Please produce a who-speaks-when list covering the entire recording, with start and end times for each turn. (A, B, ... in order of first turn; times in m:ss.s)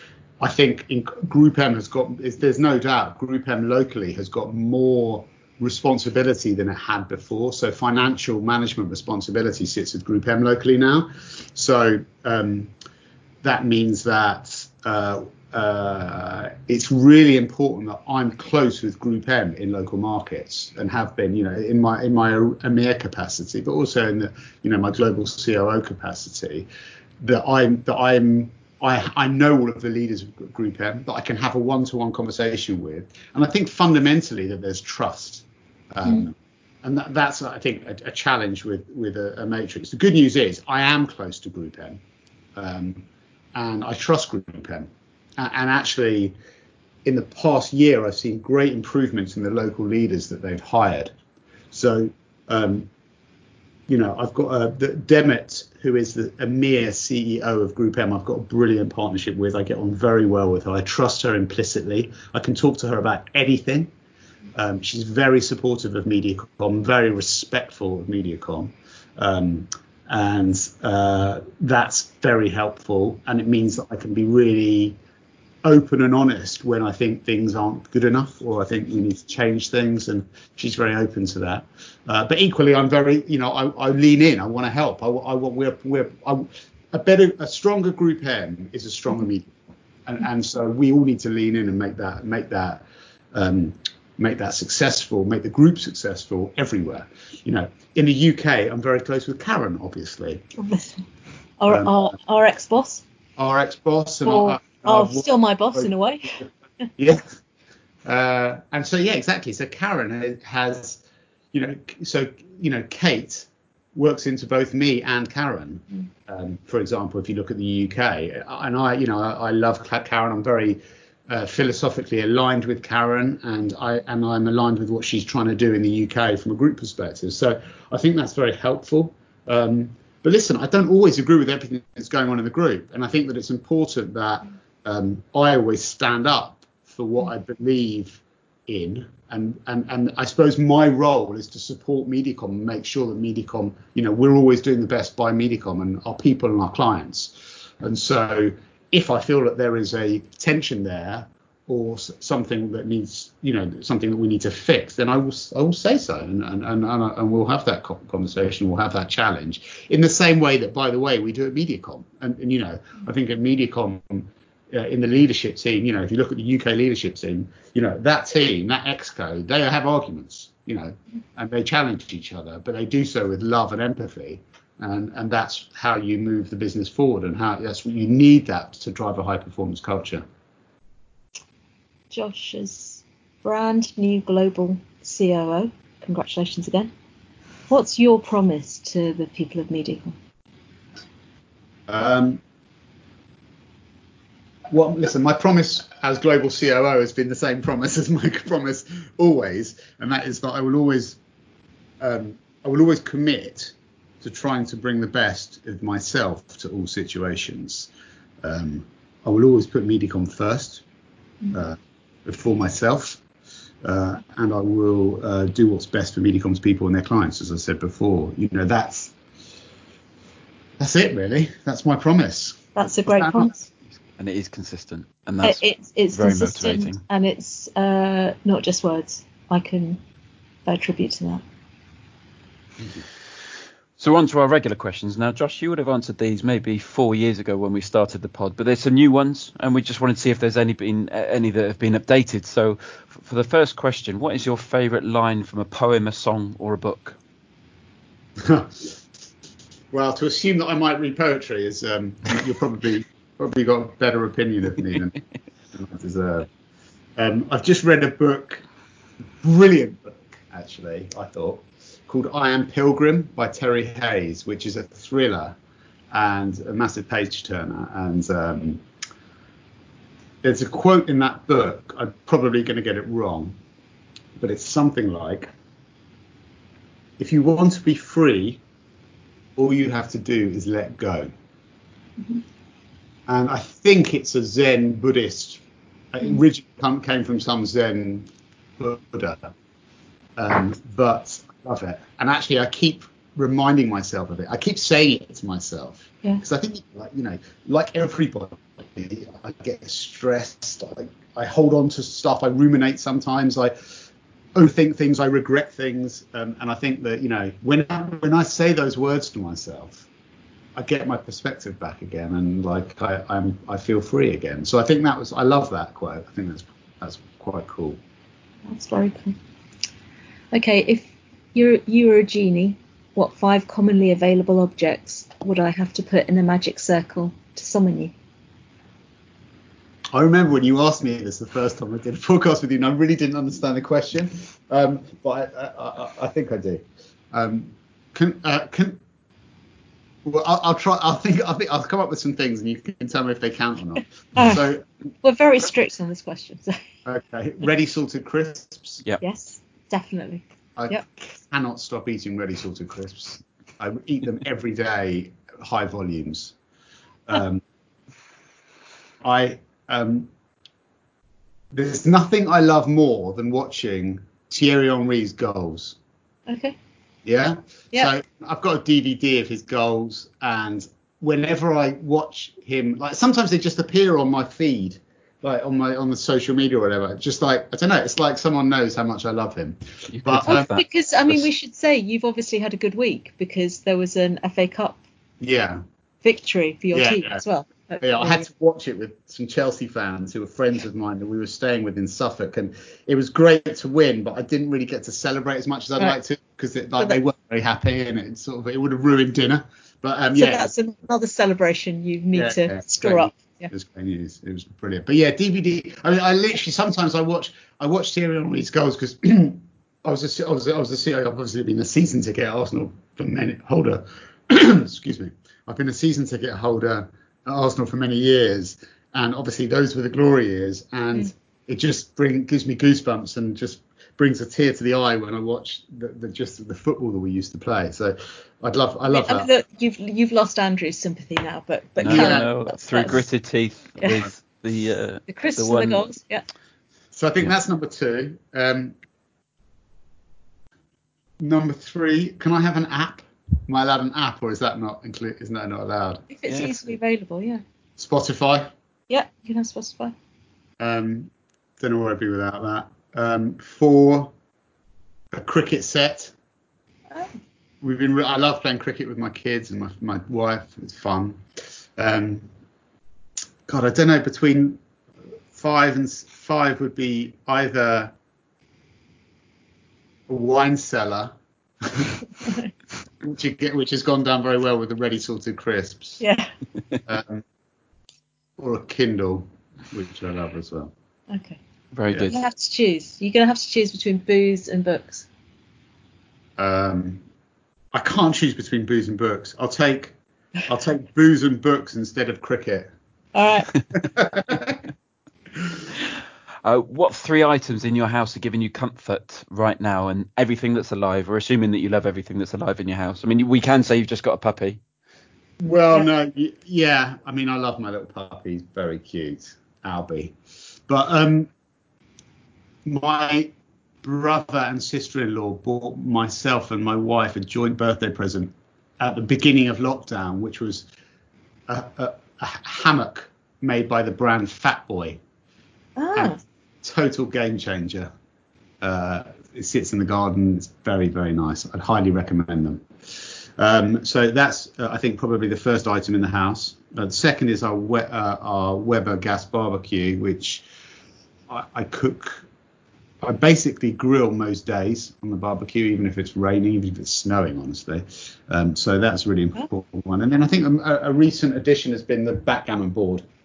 0:00.4-0:12.7 A
0:13.4-0:26.7 A
0:27.2-0:42.0 A
0:42.6-0:46.3 A
0:47.0-0:51.1 A
0:51.7-0:52.9 A
0:53.9-1:03.9 A
1:04.5-1:15.0 A
1:15.6-1:29.5 A
1:30.0-1:40.4 A
1:40.6-1:41.0 B
1:41.6-1:43.0 B
1:41.7-1:42.0 A
1:43.4-1:47.4 A
1:44.2-1:46.4 B
1:48.0-1:51.0 A
1:51.5-3:00.2 A
3:02.1-3:06.9 B
3:07.7-3:10.1 B
3:11.9-3:12.4 A
3:14.7-3:21.2 A
3:22.0-3:27.9 A
3:28.4-3:30.8 A
3:31.5-3:33.2 A
3:33.8-3:39.1 A
3:40.8-3:43.5 A
3:42.7-3:43.6 B
3:44.2-3:45.6 C
3:45.4-3:50.0 B
3:46.1-3:47.0 C
3:50.6-3:51.4 B
3:54.0-4:07.2 C
4:08.4-4:09.0 A
4:09.9-4:15.2 A
4:15.7-4:16.5 A
4:17.2-4:18.6 A
4:19.4-4:25.6 A
4:26.1-4:28.8 A
4:30.4-4:33.5 A
4:34.4-4:35.5 A
4:37.2-4:38.6 A
4:39.6-4:41.3 A
4:43.3-4:48.3 A
4:48.8-4:49.5 A
4:50.4-5:04.0 A
5:04.5-5:10.1 A
5:10.7-5:18.0 A
5:18.7-5:19.4 B
5:20.5-5:28.1 B
5:30.1-5:39.0 A
5:40.2-5:44.8 A
5:44.4-5:44.6 B
5:45.2-5:46.8 B
5:47.0-5:49.0 A
5:49.2-5:51.0 B
5:50.8-5:56.5 A
5:57.3-5:57.6 A
5:59.2-6:00.3 A
6:01.7-6:06.0 A
6:06.5-6:06.8 B
6:07.2-6:20.7 A
6:20.1-6:20.8 C
6:20.4-6:25.0 B
6:25.4-6:25.8 A
6:26.2-6:28.4 B
6:26.9-6:27.4 A
6:28.0-6:40.7 A
6:40.3-6:43.7 B
6:42.3-7:09.5 A
7:09.1-7:13.2 B
7:12.0-7:16.1 C
7:12.1-7:12.4 A
7:14.0-7:14.3 B
7:15.3-7:16.4 B
7:17.1-7:18.9 A
7:21.4-7:26.2 A
7:26.3-7:27.6 B
7:28.0-7:28.7 A
7:29.1-7:30.1 B
7:30.8-7:34.3 A
7:35.3-7:36.3 A
7:37.8-7:41.4 A
7:42.0-7:42.5 A
7:43.7-7:44.8 A
7:45.5-7:48.1 A
7:50.3-7:52.2 A
7:53.2-7:56.2 A
7:56.2-7:56.5 B
7:57.1-7:57.4 A
7:58.6-8:00.9 A
8:01.3-8:01.6 B
8:01.9-8:02.4 C
8:02.2-8:05.3 B
8:06.6-8:07.2 A
8:07.9-8:10.1 A
8:10.7-8:12.9 A
8:13.3-8:13.7 B
8:13.9-8:14.8 A
8:16.6-8:24.8 C
8:25.6-8:30.4 A
8:30.9-8:31.5 A
8:32.8-8:40.9 A
8:41.7-8:45.2 A
8:46.0-8:46.4 B
8:46.1-8:48.1 A
8:48.8-9:00.6 A
9:01.5-9:02.4 A
9:03.2-9:13.2 A